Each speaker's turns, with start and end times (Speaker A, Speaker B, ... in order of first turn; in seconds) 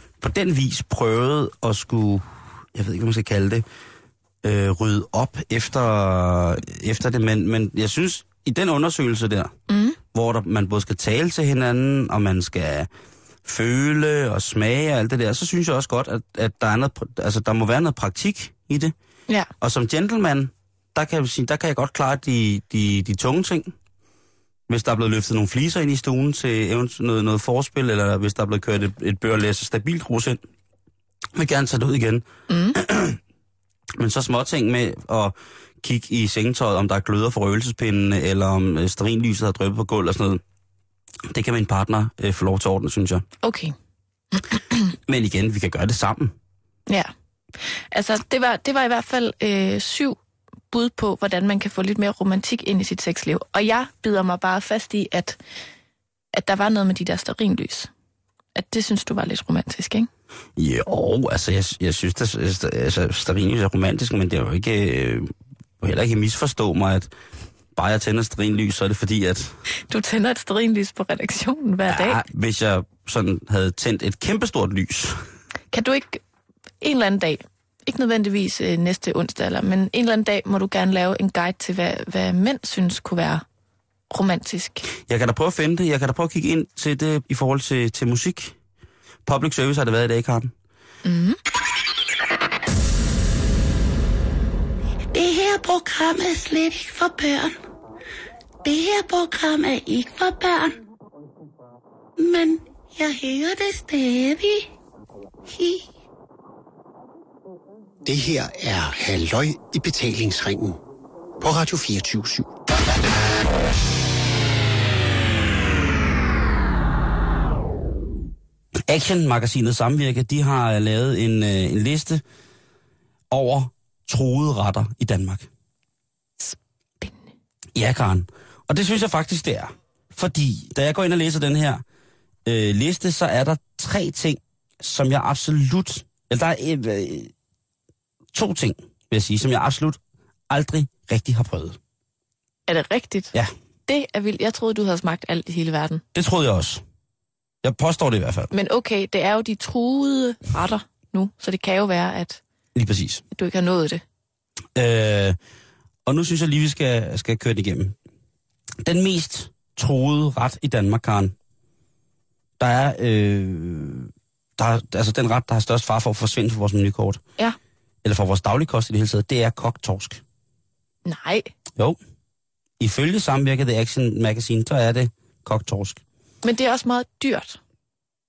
Speaker A: 0.2-3.6, 4.4-9.5, 10.1-12.9, 13.4-18.9, 19.6-23.7, 24.7-30.4, 31.3-33.2, 34.0-40.4, 41.3-43.2, 45.1-46.3, 60.6-65.3, 65.8-67.1, 67.7-69.5, 71.9-75.2, 85.1-88.5, 89.2-90.5, 118.9-122.2, 123.3-125.5, 127.7-131.8, 132.4-137.3, 138.3-140.0, 140.5-141.8, 146.1-146.8, 147.6-148.5, 152.7-153.2, 154.7-155.4, 156.1-157.9, 158.8-161.3, 162.6-167.2, 168.0-170.2, 172.8-176.0
Speaker B: 9.7-10.0, 32.5-32.8, 43.4-43.7, 47.9-50.2, 50.7-55.4, 56.3-57.9, 58.5-60.1, 69.9-72.2, 75.7-76.2, 76.8-83.4, 84.1-84.9, 91.0-91.4, 126.4-127.2, 142.7-143.3, 143.9-146.0, 148.5-152.4, 153.3-154.0, 171.1-171.5, 176.4-177.6
Speaker C: 95.1-97.6, 98.6-100.8, 102.2-104.7, 105.5-105.8
Speaker D: 108.0-110.8, 111.4-112.5